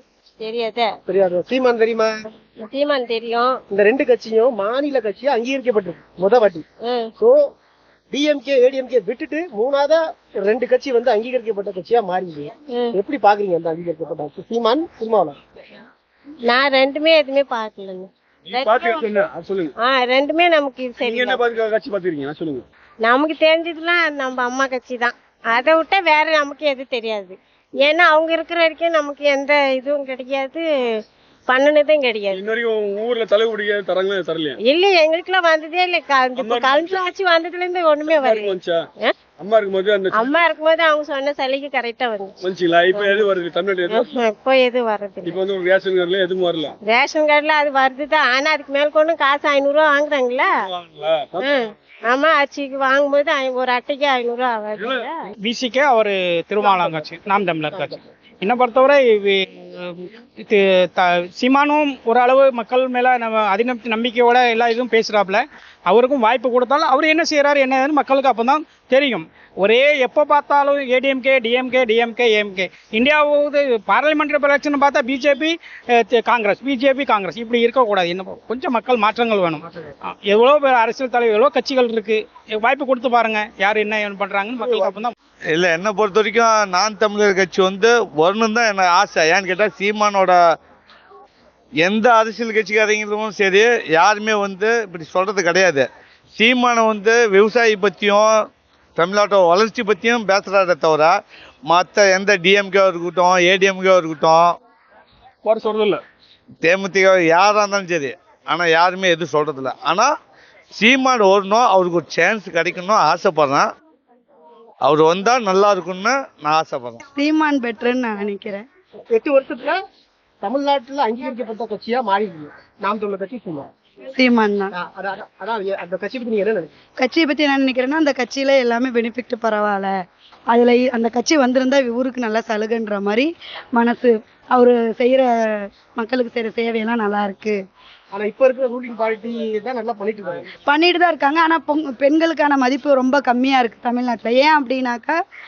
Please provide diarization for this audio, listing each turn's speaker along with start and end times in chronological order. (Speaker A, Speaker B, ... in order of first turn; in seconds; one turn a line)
Speaker A: 0.4-0.9
Speaker B: 1.1-2.1
Speaker A: 2.6-3.5
Speaker B: 3.7-6.7
Speaker B: 7.2-7.5
Speaker B: 8.1-15.4
Speaker A: 16.5-19.1
Speaker C: 18.5-19.7
Speaker A: 19.8-21.4
Speaker C: 21.0-22.6
Speaker A: 23.0-30.6
Speaker A: 31.5-32.4
Speaker C: 32.3-34.5
Speaker A: 34.7-39.1
Speaker C: 36.4-36.9
Speaker C: 38.2-38.8
Speaker C: 39.4-40.3
Speaker A: 40.1-42.3
Speaker C: 42.4-44.1
Speaker A: 42.9-43.3
Speaker A: 43.9-45.4
Speaker C: 45.2-46.7
Speaker A: 46.9-50.5
Speaker C: 50.7-51.4
Speaker A: 51.4-55.1
Speaker D: 55.4-85.1
Speaker B: 56.6-57.1
Speaker B: 57.7-58.0
Speaker E: 85.5-90.4
Speaker E: 91.8-95.8
Speaker E: 96.4-98.3
Speaker E: 99.0-101.1
Speaker E: 101.7-104.5
Speaker C: 105.5-106.0
Speaker E: 106.6-110.1
Speaker E: 110.8-113.7
Speaker E: 114.8-117.0
Speaker F: 117.1-118.6
Speaker B: 119.1-119.8
Speaker B: 120.4-123.7
Speaker F: 124.1-124.8
Speaker B: 124.7-126.7
Speaker F: 127.0-129.9
Speaker F: 130.5-137.6
Speaker B: 138.1-140.5
Speaker F: 140.7-145.2